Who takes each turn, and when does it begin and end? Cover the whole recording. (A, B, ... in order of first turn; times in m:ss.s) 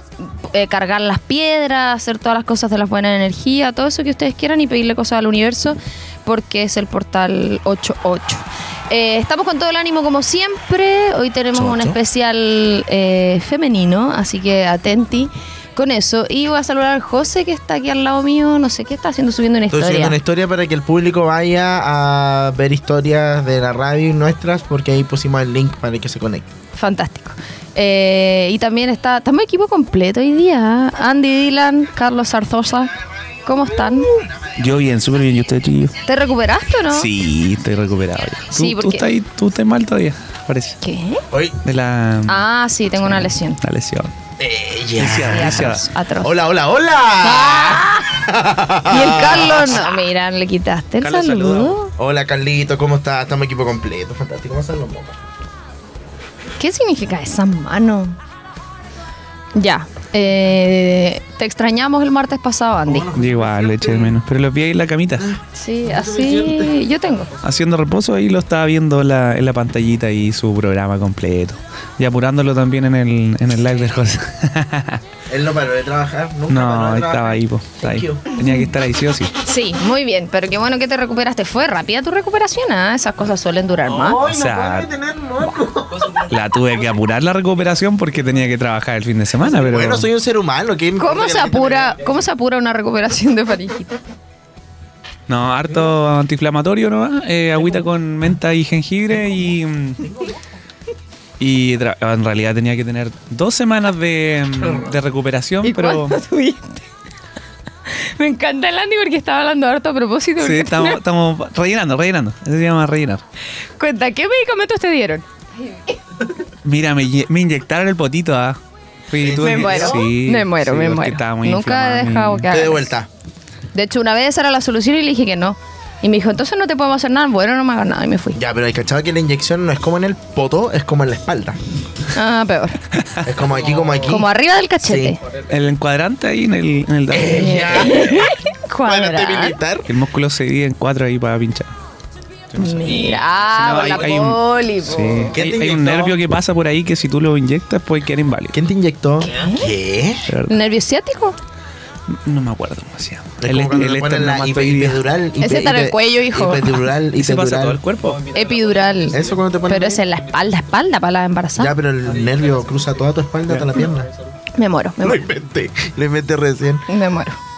0:00.2-0:20.2 A
0:11.5-0:12.0 B
0:19.7-0:26.5 B
0:26.7-0:32.9 A
0:33.4-0:34.1 A
0:34.6-0:35.9 C
0:36.0-0:37.1 A
0:36.9-0:40.8 C
0:38.5-0:39.1 A
0:40.8-0:41.2 A
0:41.3-0:41.6 B
0:41.6-0:42.4 C
0:42.3-0:43.6 A
0:43.0-0:44.1 C
0:44.4-0:49.9 B
0:45.0-0:45.9 C
0:45.3-0:46.3 A
0:47.2-0:48.2 A
0:48.8-0:51.9 A
0:51.0-0:51.8 C
0:51.8-0:55.2 B
0:56.6-0:58.2 A
0:59.5-1:03.1 A
1:02.8-1:04.2 B
1:03.1-1:05.3 C
1:05.2-1:06.7 B
1:05.5-1:07.3 A
1:07.4-1:15.0 C
1:15.3-1:18.2 B
1:16.5-1:19.3 C
1:19.4-1:24.2 A
1:23.8-1:26.3 B
1:24.2-1:24.9 C
1:26.2-1:30.1 C
1:29.5-1:32.1 B
1:31.0-1:34.0 A
1:35.3-1:40.1 C
1:41.4-1:46.2 C
1:45.6-1:46.8 A
1:47.9-1:51.0 A
1:50.4-1:53.2 C
1:53.8-1:55.8 A
1:56.6-2:02.5 C
1:59.2-2:00.1 B
1:59.4-2:02.9 A
2:02.5-2:03.1 B
2:03.7-2:08.4 A
2:08.3-2:11.6 B
2:12.1-2:12.8 A
2:13.2-2:15.2 B
2:13.9-2:15.2 A
2:15.4-2:18.1 C
2:17.1-2:18.4 B
2:17.3-2:19.6 A
2:18.9-2:19.9 B
2:19.8-2:21.7 C
2:22.5-2:28.6 C
2:22.5-2:25.3 A
2:25.3-2:26.2 B
2:28.5-2:30.3 B
2:29.2-2:29.7 A
2:30.3-2:30.6 C
2:30.5-2:31.4 A
2:32.1-2:35.0 C
2:33.4-2:37.8 B
2:35.4-2:36.7 A
2:37.2-2:38.3 C
2:38.3-2:41.8 A
2:39.1-2:40.0 B
2:41.6-2:44.1 B
2:44.5-2:45.2 A
2:45.0-2:46.8 B
2:46.9-2:47.4 A